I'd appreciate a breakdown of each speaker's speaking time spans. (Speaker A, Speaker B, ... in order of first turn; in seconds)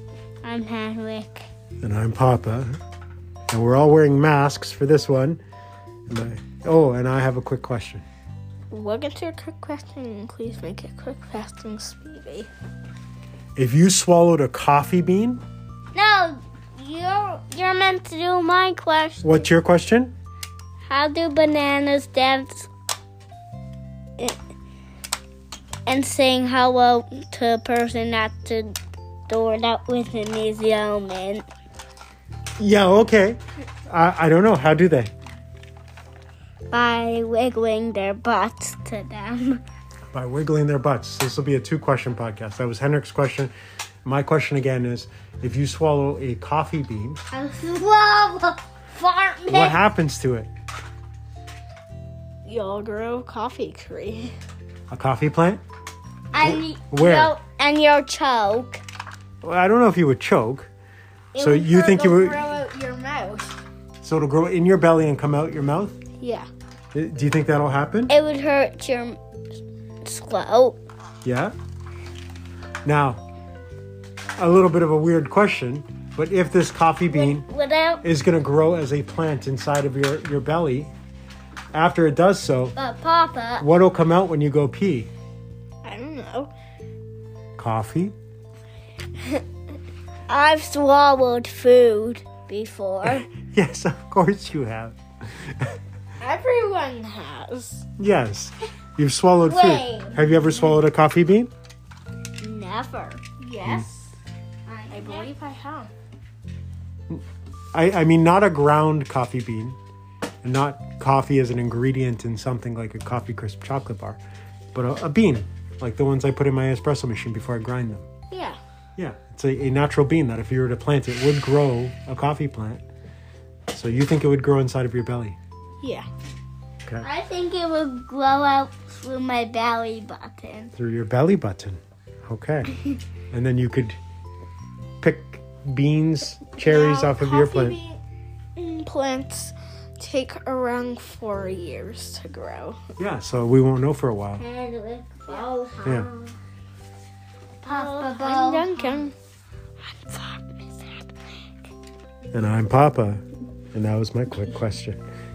Speaker A: 0.4-1.4, 15.9-19.4, 20.9-22.7, 25.9-28.7, 29.3-31.4, 36.7-39.6, 47.3-49.8, 56.3-58.8, 68.1-69.2, 70.0-70.8, 77.1-78.0, 82.7-83.7, 90.3-93.2, 99.4-100.6, 102.4-103.2, 104.7-105.3, 127.0-130.7, 144.4-146.3, 147.6-149.1
Speaker B: 1.8-2.7, 3.5-5.4, 6.1-8.0, 13.6-15.4, 19.2-20.1, 32.6-35.1, 40.1-43.5, 44.0-47.2, 49.5-50.5, 54.9-55.6, 56.4-57.4, 59.4-60.7, 61.4-62.6, 64.0-66.0, 66.9-68.1, 71.2-71.5, 72.8-73.2, 74.4-77.5, 78.0-80.9, 81.7-82.7, 83.6-85.1, 87.6-88.1, 93.0-95.8, 98.0-101.5, 107.1-109.8, 110.4-114.2, 114.7-118.0, 119.0-122.8, 123.7-125.4, 130.8-132.7, 133.3-134.0, 135.0-137.8, 143.0-144.4, 152.3-153.2, 153.7-155.0
Speaker C: 8.7-12.5, 52.5-54.3, 61.3-63.5, 66.2-66.5, 85.8-86.5, 96.2-97.8, 103.4-104.1, 104.9-105.9, 118.3-118.6, 125.8-126.1, 136.6-138.0, 138.6-142.8, 147.6-149.1, 149.8-151.0